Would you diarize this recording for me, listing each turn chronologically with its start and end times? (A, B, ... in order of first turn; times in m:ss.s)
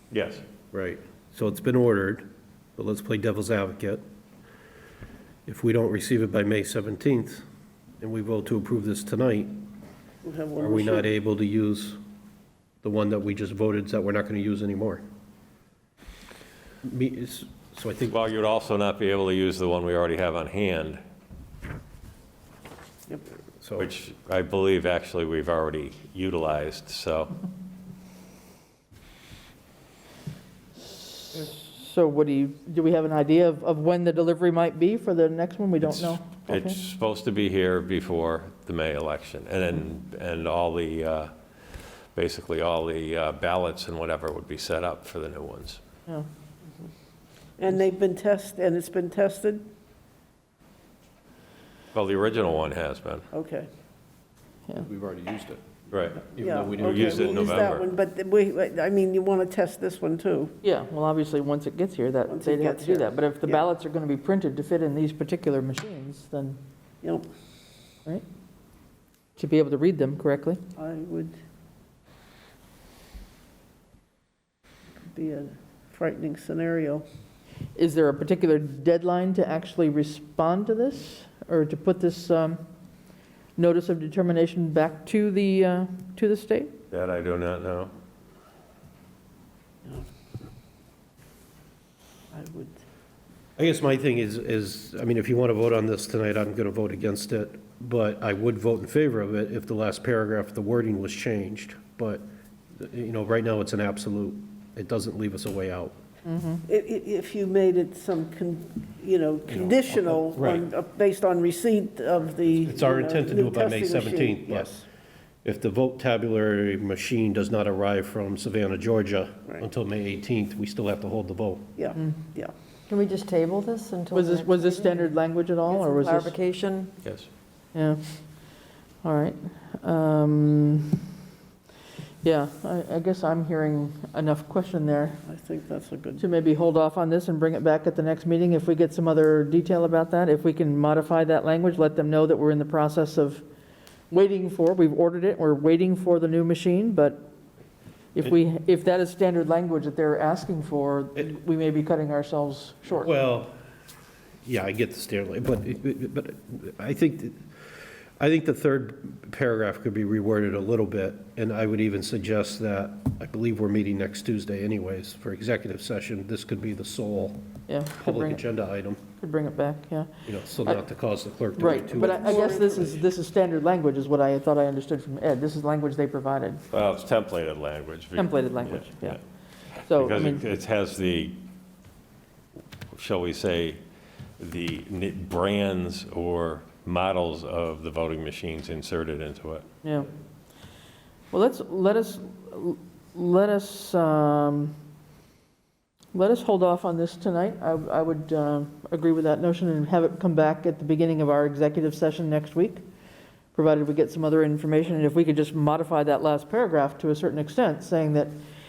0:00.1-0:00.4 A
0:00.7-0:02.3 B
0:02.8-0:04.0 B
0:05.5-0:07.4 B
0:08.0-0:09.7 B
0:10.2-0:11.1 C
0:10.6-0:12.0 B
0:12.8-0:15.0 B
0:16.8-0:18.2 B
0:18.1-0:21.0 A
0:23.6-0:23.9 B
0:23.8-0:27.3 A
0:30.8-0:36.8 D
0:35.8-0:41.3 A
0:42.2-0:45.8 A
0:47.6-0:49.7 C
0:51.9-0:53.3 A
0:53.3-0:53.7 C
0:54.8-0:57.5 B
0:55.9-0:57.9 A
0:56.4-1:00.6 C
1:00.6-1:06.6 D
1:02.3-1:03.6 C
1:09.4-1:10.6 D
1:10.8-1:11.4 C
1:15.1-1:17.0 C
1:17.8-1:22.6 D
1:23.6-1:26.7 D
1:26.9-1:27.9 A
1:32.3-1:32.8 C
1:33.6-1:42.2 B
1:42.8-1:46.0 B
1:46.3-1:46.6 D
1:46.7-1:54.8 C
1:49.5-1:50.7 B
1:52.5-1:54.7 B
1:55.4-2:01.7 B
2:01.8-2:02.5 C
2:02.9-2:05.1 E
2:04.1-2:06.4 D
2:05.7-2:06.9 E
2:07.0-2:07.3 A
2:07.7-2:08.2 D
2:09.0-2:11.0 D
2:12.2-2:15.2 D
2:15.3-2:16.2 C
2:16.2-2:23.4 D
2:24.1-2:27.3 D
2:28.2-2:33.1 D
2:33.0-2:33.5 B
2:34.4-2:37.4 B
2:38.2-2:47.4 B
2:47.7-2:48.4 D
2:48.0-2:49.0 B
2:49.2-2:50.1 D
2:50.3-2:52.6 B
2:51.6-2:56.6 D
2:51.7-2:53.0 C
2:56.7-2:59.2 A
2:58.2-2:59.2 D
2:59.8-3:00.4 D
2:59.9-3:01.4 A
3:02.9-3:03.8 A
3:04.4-3:09.7 A
3:09.8-3:10.1 D
3:11.3-3:14.7 D
3:16.1-3:22.8 D
3:23.5-3:28.3 D